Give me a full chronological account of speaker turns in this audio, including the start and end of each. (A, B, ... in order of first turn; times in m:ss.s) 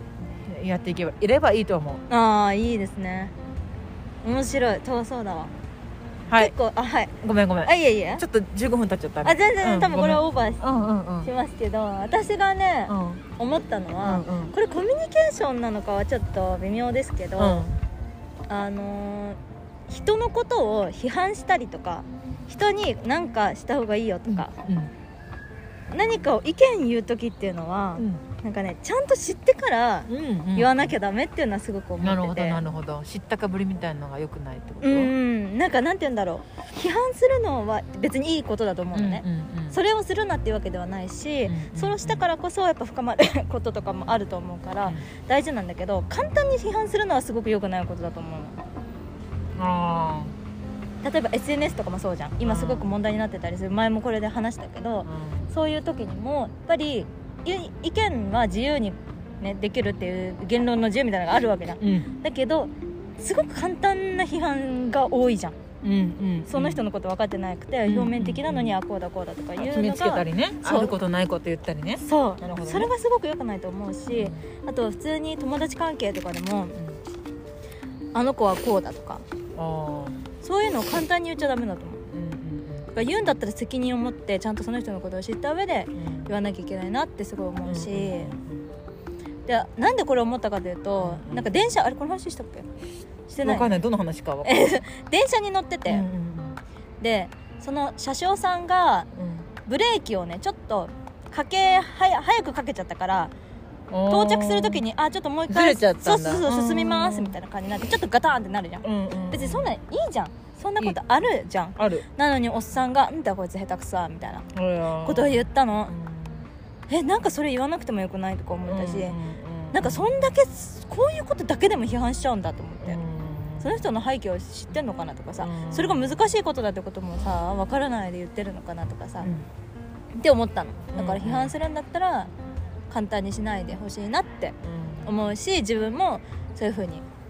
0:00.4-0:02.0 A
0:02.1-0:03.3 B
0:04.2-0:05.5 B
0:06.3-0:06.5 A
0:06.3-0:07.1 B
0:07.2-0:11.3 A
0:07.6-0:08.2 B
0:09.2-0:10.6 B
0:11.2-0:17.7 B
0:12.9-0:13.2 A
0:14.0-0:14.5 A
0:17.4-0:17.7 A
0:18.5-0:24.5 B
0:24.3-0:24.9 A
0:25.9-0:32.6 B
0:28.0-0:28.2 A
0:30.1-0:31.0 A
0:32.0-0:35.1 A
0:34.8-0:48.6 B
0:38.9-0:39.8 A
0:41.5-0:42.2 A
0:49.6-0:50.3 A
0:51.0-1:05.6 B
0:52.4-0:52.9 A
0:55.0-0:55.5 A
1:01.8-1:02.1 A
1:05.8-1:06.8 A
1:06.5-1:11.0 B
1:07.8-1:08.8 A
1:09.6-1:12.9 A
1:12.0-1:16.8 B
1:14.1-1:14.4 A
1:18.1-1:19.2 B
1:19.5-1:20.2 A
1:20.4-1:22.0 B
1:22.1-1:23.4 A
1:22.9-1:28.3 B
1:26.0-1:26.4 A
1:27.6-1:28.6 A
1:29.5-1:32.7 B
1:31.0-1:31.7 A
1:33.3-1:33.7 B
1:33.4-1:34.6 A
1:34.4-1:36.0 B
1:35.9-1:36.6 A
1:37.0-1:39.1 B
1:39.1-1:39.5 A
1:39.6-1:43.3 B
1:43.9-1:44.8 A
1:44.1-1:54.4 B
1:45.5-1:47.4 A
1:48.8-1:49.7 A
1:51.8-1:52.0 A
1:54.5-1:56.5 A
1:55.0-1:55.9 B
1:56.9-1:59.2 B
1:58.6-2:00.3 A
1:59.7-2:03.0 B
2:02.8-2:03.8 A
2:03.6-2:09.3 B
2:05.4-2:06.2 A
2:09.2-2:09.5 A
2:10.2-2:12.3 B
2:10.9-2:11.5 A
2:12.9-2:17.0 B
2:14.6-2:15.1 A